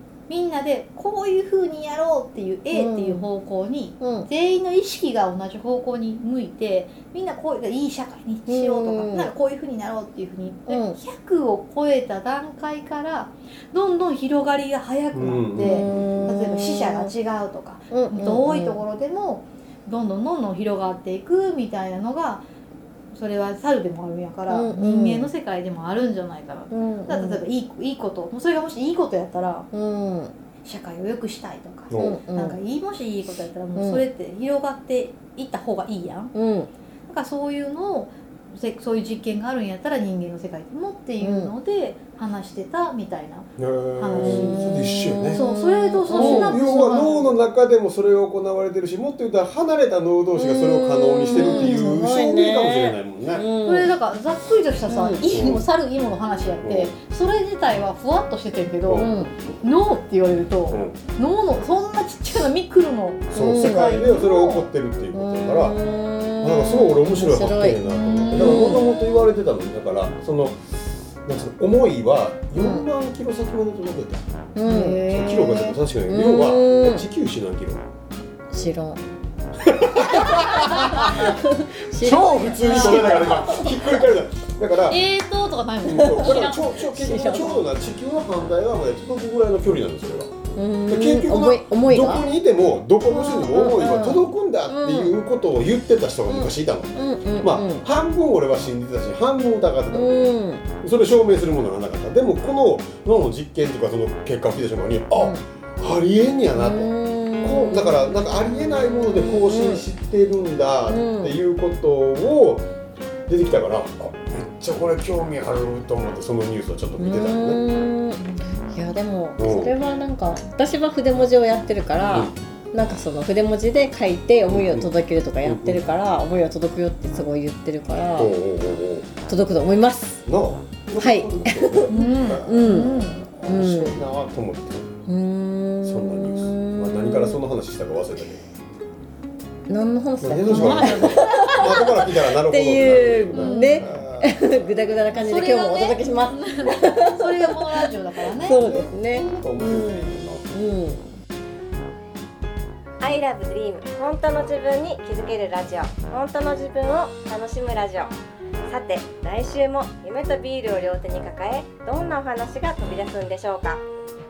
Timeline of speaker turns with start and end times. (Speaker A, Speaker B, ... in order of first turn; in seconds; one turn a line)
Speaker A: 0.3-22.4
Speaker B: 2.7-3.2
Speaker B: 4.0-4.3
Speaker B: 8.4-9.3
Speaker B: 10.7-11.0
Speaker C: 15.1-16.0
Speaker B: 15.6-17.1
Speaker B: 17.9-18.8
Speaker A: 23.1-29.7
Speaker B: 24.5-25.3
Speaker B: 26.7-27.4
Speaker B: 29.7-30.3
Speaker A: 30.6-36.3
Speaker C: 31.9-32.2
Speaker B: 32.0-32.6
Speaker B: 33.7-34.0
Speaker B: 36.3-36.7
Speaker A: 37.1-47.3
Speaker B: 41.2-41.5
Speaker C: 43.6-45.4
Speaker B: 44.1-47.1
Speaker C: 46.1-53.5
Speaker B: 50.3-53.9
Speaker A: 51.4-52.0
Speaker A: 53.6-59.1
Speaker B: 54.9-55.4
Speaker C: 55.3-55.6
Speaker C: 56.6-56.9
Speaker C: 58.9-59.1
Speaker B: 58.9-59.3
Speaker A: 59.6-64.7
Speaker C: 60.7-61.0
Speaker C: 63.3-65.8
Speaker B: 63.3-64.0
Speaker B: 65.1-69.0
Speaker C: 66.4-70.6
Speaker A: 67.9-68.9
Speaker C: 71.2-74.3
Speaker B: 72.5-72.9
Speaker B: 74.5-77.1
Speaker A: 74.6-75.1
Speaker C: 74.9-77.8
Speaker B: 78.5-79.0
Speaker C: 79.7-81.3
Speaker B: 80.2-84.0
Speaker C: 81.9-85.0
Speaker A: 82.3-83.7
Speaker A: 84.9-86.7
Speaker C: 85.8-90.3
Speaker B: 85.9-87.7
Speaker B: 90.5-92.3
Speaker C: 90.9-112.7
Speaker B: 93.1-95.2
Speaker B: 96.3-97.8
Speaker B: 99.9-100.7
Speaker B: 105.1-105.4
Speaker B: 106.5-109.8
Speaker B: 110.8-111.4
Speaker C: 113.3-117.6
Speaker B: 117.0-128.3
Speaker C: 119.4-119.7
Speaker C: 124.5-124.9
Speaker C: 125.4-125.9
Speaker C: 128.2-129.2
Speaker B: 129.2-130.2
Speaker C: 130.2-134.9
Speaker B: 131.0-134.0
Speaker A: 131.9-133.3
Speaker B: 135.1-137.4
Speaker C: 135.8-138.5
Speaker B: 139.7-151.1
Speaker C: 140.2-144.7
Speaker A: 140.4-141.6
Speaker A: 143.3-143.9
Speaker A: 145.1-148.6
Speaker C: 148.6-150.6
Speaker D: 153.0-158.1
Speaker D: 158.7-163.8